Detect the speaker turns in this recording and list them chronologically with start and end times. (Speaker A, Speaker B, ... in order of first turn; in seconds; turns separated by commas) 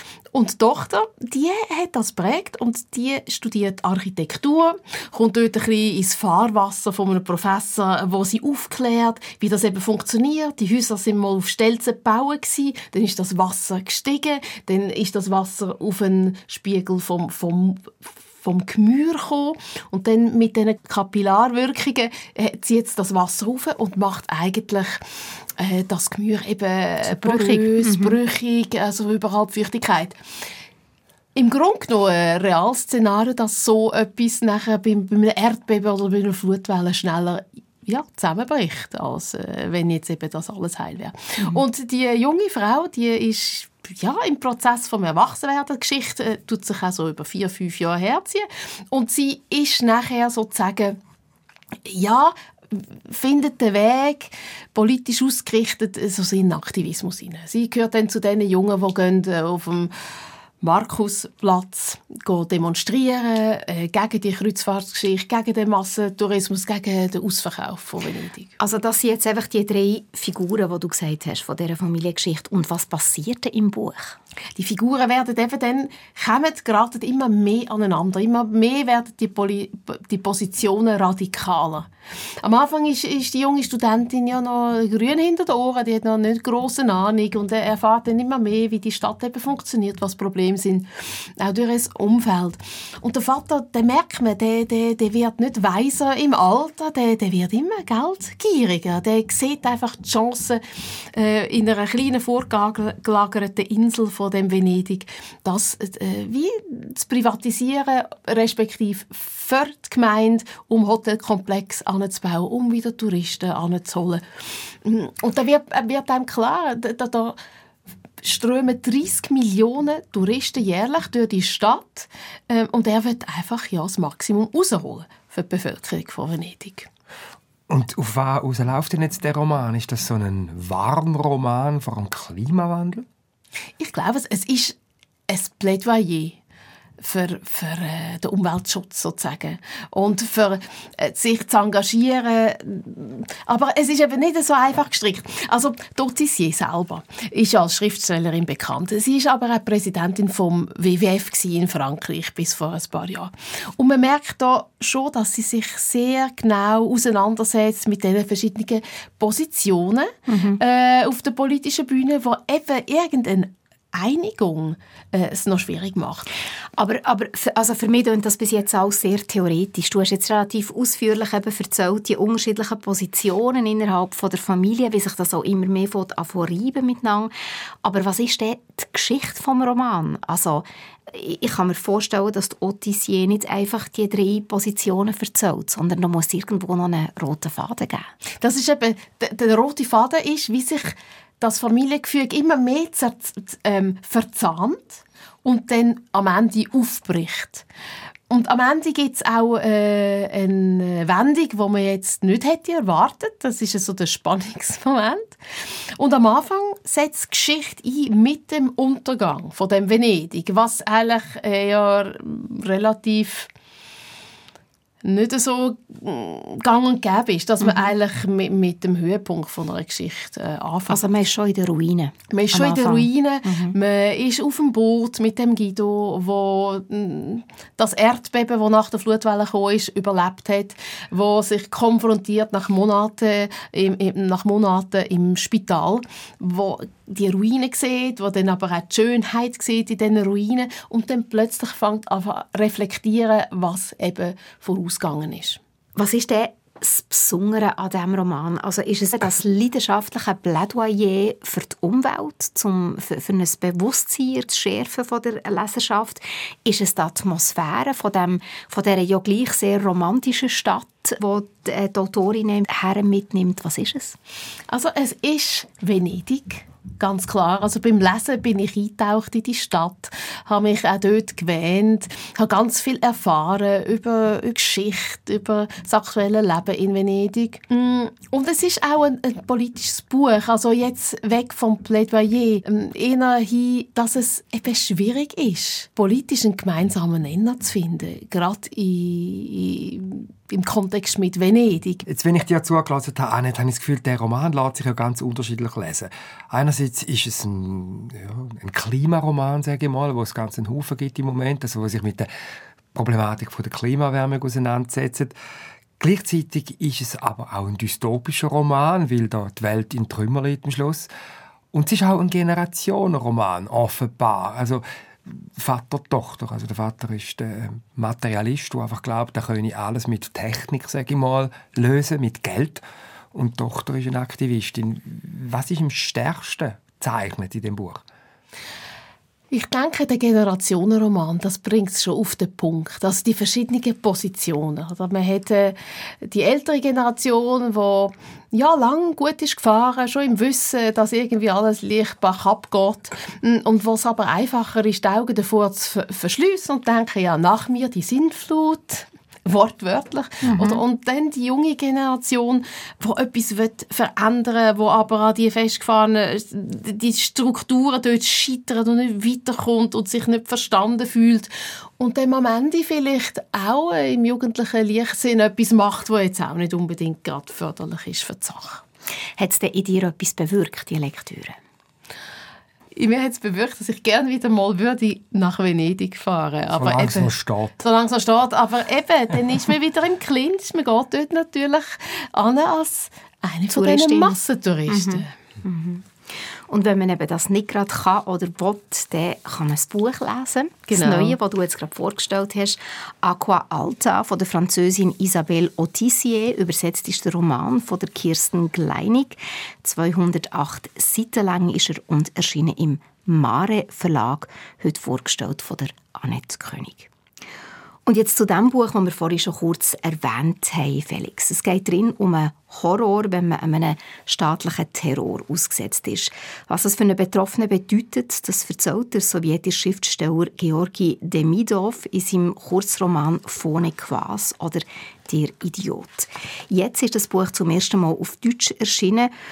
Speaker A: 0.3-25.0, Speaker A: 25.6-30.2, Speaker B: 27.1-28.1, Speaker A: 31.3-51.0, Speaker A: 51.8-59.9, Speaker A: 60.6-68.5, Speaker B: 68.6-74.2, Speaker A: 74.5-81.9, Speaker A: 82.4-117.4, Speaker A: 118.2-126.9, Speaker C: 127.7-133.1, Speaker A: 133.8-134.8, Speaker A: 135.3-136.4, Speaker A: 137.0-166.3, Speaker B: 160.3-160.6, Speaker B: 166.7-177.3, Speaker B: 177.8-188.1, Speaker A: 188.4-197.7, Speaker A: 198.3-213.5, Speaker A: 215.0-221.0, Speaker B: 217.6-217.9, Speaker B: 220.9-223.7, Speaker A: 222.3-245.6, Speaker B: 245.9-264.2, Speaker A: 264.7-292.0, Speaker C: 292.1-302.3, Speaker C: 302.9-305.4, Speaker C: 306.0-311.1, Speaker C: 311.7-322.8, Speaker C: 323.3-328.0, Speaker A: 329.5-368.8, Speaker B: 350.4-350.8, Speaker B: 369.4-371.6, Speaker A: 372.9-385.3, Speaker C: 376.7-377.7, Speaker B: 383.7-386.1, Speaker B: 386.7-407.1, Speaker A: 390.9-391.4, Speaker B: 408.1-429.3